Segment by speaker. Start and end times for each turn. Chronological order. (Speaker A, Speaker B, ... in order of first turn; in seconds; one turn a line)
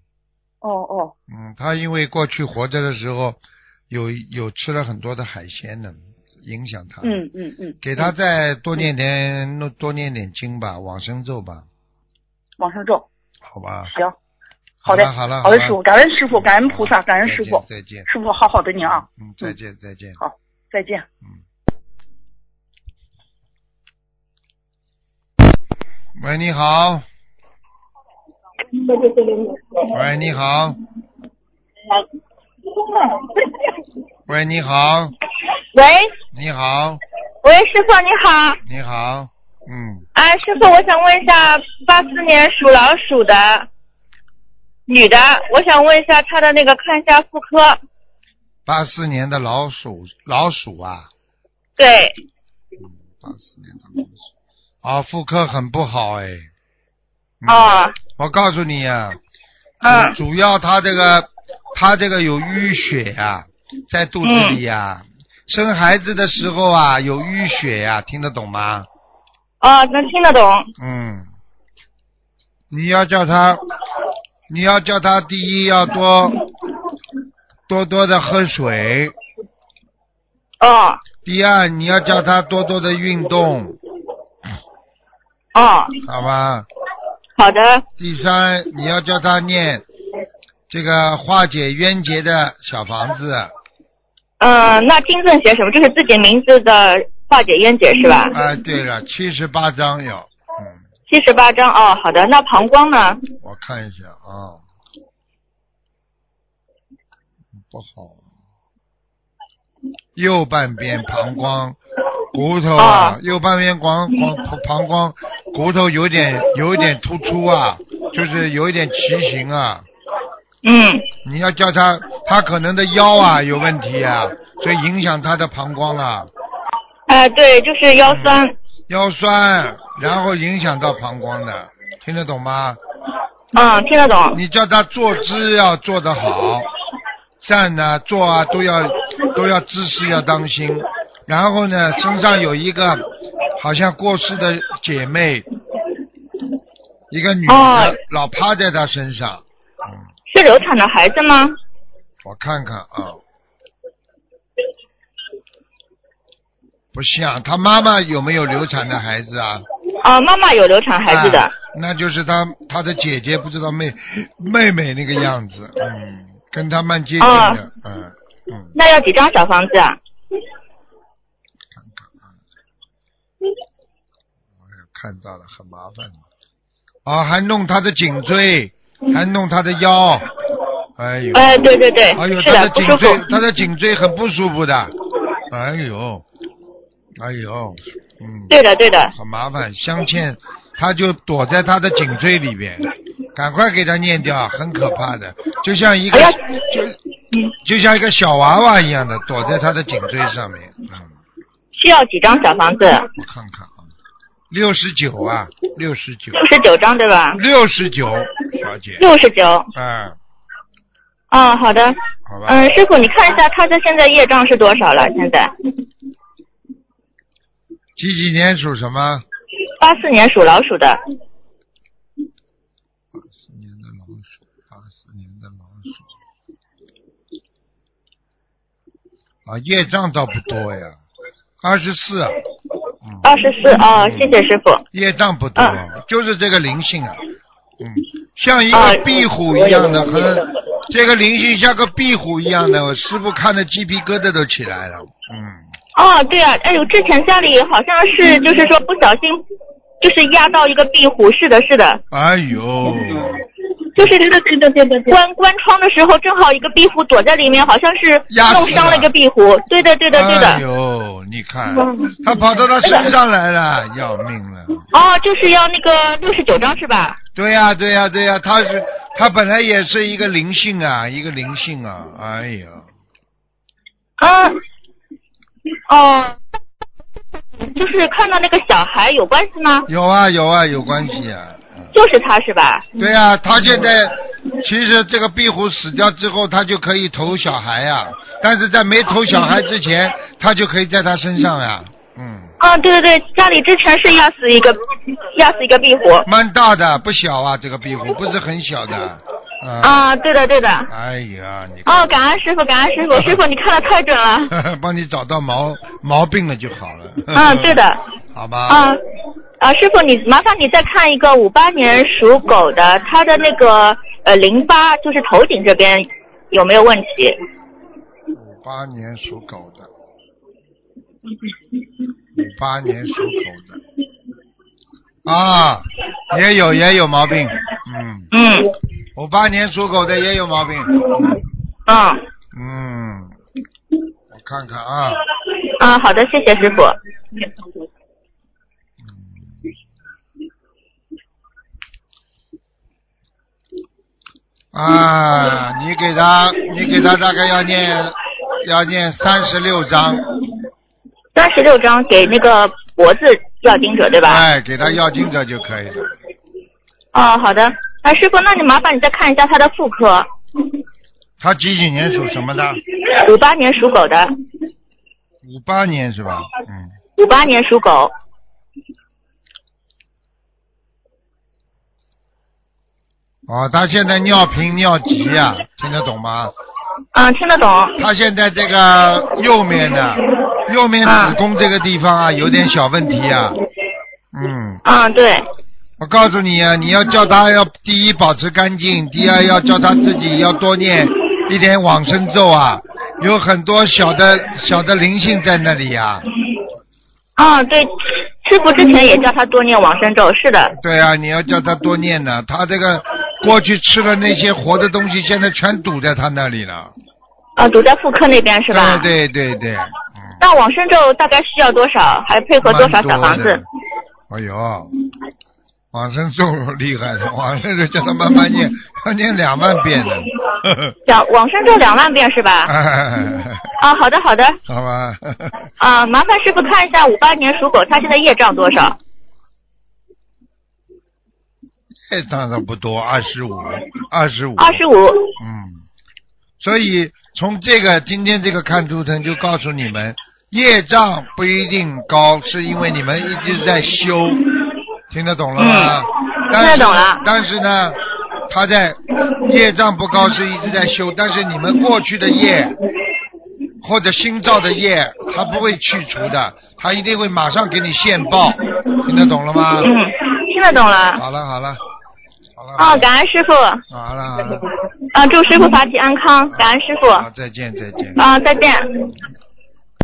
Speaker A: 0.6-1.1
Speaker B: 1.3-7.2
Speaker A: 7.0-8.1
Speaker B: 7.8-11.7
Speaker A: 12.6-13.1
Speaker B: 13.5-13.9
Speaker A: 13.9-14.2
Speaker B: 14.8-15.8
Speaker A: 14.8-19.6
Speaker B: 16.3-18.1
Speaker B: 18.8-20.2
Speaker A: 20.2-21.1
Speaker B: 26.1-27.1
Speaker C: 28.9-29.6
Speaker B: 29.9-30.8
Speaker B: 34.3-35.1
Speaker C: 35.7-36.1
Speaker B: 36.3-37.0
Speaker C: 37.4-38.6
Speaker B: 38.6-40.0
Speaker C: 40.1-43.7
Speaker C: 44.9-47.8
Speaker B: 48.7-51.1
Speaker C: 51.8-52.2
Speaker B: 52.8-54.3
Speaker B: 54.8-56.5
Speaker B: 57.4-59.2
Speaker C: 57.5-58.0
Speaker C: 59.8-60.2
Speaker B: 59.9-68.9
Speaker C: 64.2-64.6
Speaker C: 69.6-70.7
Speaker B: 70.8-71.3
Speaker B: 72.7-73.6
Speaker B: 74.5-76.5
Speaker B: 77.7-79.2
Speaker C: 80.6-81.0
Speaker B: 81.2-83.8
Speaker C: 85.5-86.0
Speaker B: 86.0-86.7
Speaker C: 87.4-87.8
Speaker B: 88.0-89.8
Speaker B: 90.7-93.5
Speaker C: 94.4-98.4
Speaker B: 98.3-100.8
Speaker C: 101.1-103.2
Speaker B: 103.4-104.6
Speaker B: 107.6-108.2
Speaker B: 110.2-111.8
Speaker B: 112.3-119.8
Speaker C: 112.8-113.2
Speaker C: 120.6-121.1
Speaker B: 121.2-126.3
Speaker C: 127.1-128.6
Speaker B: 128.1-132.8
Speaker C: 133.5-134.4
Speaker B: 134.3-136.7
Speaker B: 137.4-145.5
Speaker B: 147.1-150.0
Speaker C: 147.5-148.0
Speaker C: 150.3-151.6
Speaker B: 152.2-153.2
Speaker B: 156.9-159.7
Speaker C: 160.0-161.5
Speaker B: 161.1-168.7
Speaker C: 167.2-167.6
Speaker C: 168.8-170.0
Speaker B: 171.8-172.3
Speaker B: 174.6-176.2
Speaker B: 177.1-180.3
Speaker B: 181.0-184.9
Speaker C: 181.3-183.2
Speaker B: 185.5-186.2
Speaker B: 187.2-188.5
Speaker C: 188.5-189.1
Speaker B: 189.1-197.0
Speaker C: 196.1-196.5
Speaker B: 197.6-201.2
Speaker C: 201.7-203.1
Speaker B: 203.1-203.9
Speaker B: 204.5-206.4
Speaker C: 206.3-207.4
Speaker B: 207.3-209.1
Speaker C: 209.0-209.7
Speaker B: 209.7-210.2
Speaker C: 211.3-215.5
Speaker B: 212.3-212.8
Speaker B: 218.0-219.2
Speaker C: 219.8-221.0
Speaker B: 223.2-226.1
Speaker B: 229.4-231.0
Speaker B: 231.6-232.4
Speaker C: 233.2-234.8
Speaker B: 233.9-234.4
Speaker B: 234.9-237.2
Speaker B: 237.8-245.6
Speaker C: 238.7-240.5
Speaker C: 246.0-249.4
Speaker C: 250.0-252.0
Speaker B: 252.1-253.4
Speaker C: 254.0-260.6
Speaker B: 258.3-259.1
Speaker B: 260.1-264.9
Speaker C: 261.8-262.2
Speaker C: 264.9-267.2
Speaker B: 267.4-272.9
Speaker C: 274.2-274.6
Speaker C: 275.9-276.4
Speaker C: 277.6-279.9
Speaker B: 279.9-281.9
Speaker C: 281.9-283.0
Speaker B: 283.0-292.5
Speaker C: 292.6-296.3
Speaker B: 296.2-300.1
Speaker C: 299.8-300.9
Speaker B: 300.9-302.1
Speaker C: 301.9-304.5
Speaker B: 303.1-303.4
Speaker B: 304.5-307.8
Speaker C: 307.3-308.0
Speaker B: 308.3-308.9
Speaker C: 308.7-309.0
Speaker C: 309.6-317.4
Speaker B: 318.3-319.9
Speaker B: 322.4-323.8
Speaker B: 325.2-328.3
Speaker C: 328.3-328.8
Speaker B: 329.1-331.4
Speaker C: 331.9-332.2
Speaker B: 332.5-333.4
Speaker B: 334.3-335.2
Speaker C: 335.8-337.0
Speaker B: 339.0-339.7
Speaker B: 344.7-350.3
Speaker C: 351.4-354.4
Speaker B: 354.2-356.1
Speaker C: 357.1-360.3
Speaker B: 361.4-362.8
Speaker C: 363.1-364.3
Speaker B: 365.4-366.9
Speaker C: 367.2-368.1
Speaker B: 373.5-376.5
Speaker C: 377.1-378.0
Speaker B: 378.0-383.6
Speaker C: 381.0-381.4
Speaker B: 384.3-384.8
Speaker C: 384.9-385.4
Speaker B: 386.0-396.3
Speaker C: 397.4-400.8
Speaker B: 400.8-406.9
Speaker C: 407.6-409.1
Speaker B: 408.7-410.4
Speaker C: 410.4-413.6
Speaker B: 412.6-413.6
Speaker B: 414.3-414.9
Speaker B: 415.9-420.9
Speaker C: 421.1-422.7
Speaker B: 422.7-423.8
Speaker C: 423.8-424.6
Speaker B: 424.7-425.7
Speaker C: 425.8-429.0
Speaker B: 432.1-434.8
Speaker C: 434.6-435.3
Speaker B: 435.4-435.8
Speaker B: 436.6-444.5
Speaker B: 445.1-452.8
Speaker C: 445.6-447.2
Speaker B: 453.8-459.9
Speaker C: 459.8-461.2
Speaker B: 461.2-461.8
Speaker B: 462.6-463.1
Speaker C: 462.8-463.8
Speaker B: 463.9-464.8
Speaker C: 465.1-467.3
Speaker B: 466.5-468.2
Speaker C: 468.1-469.1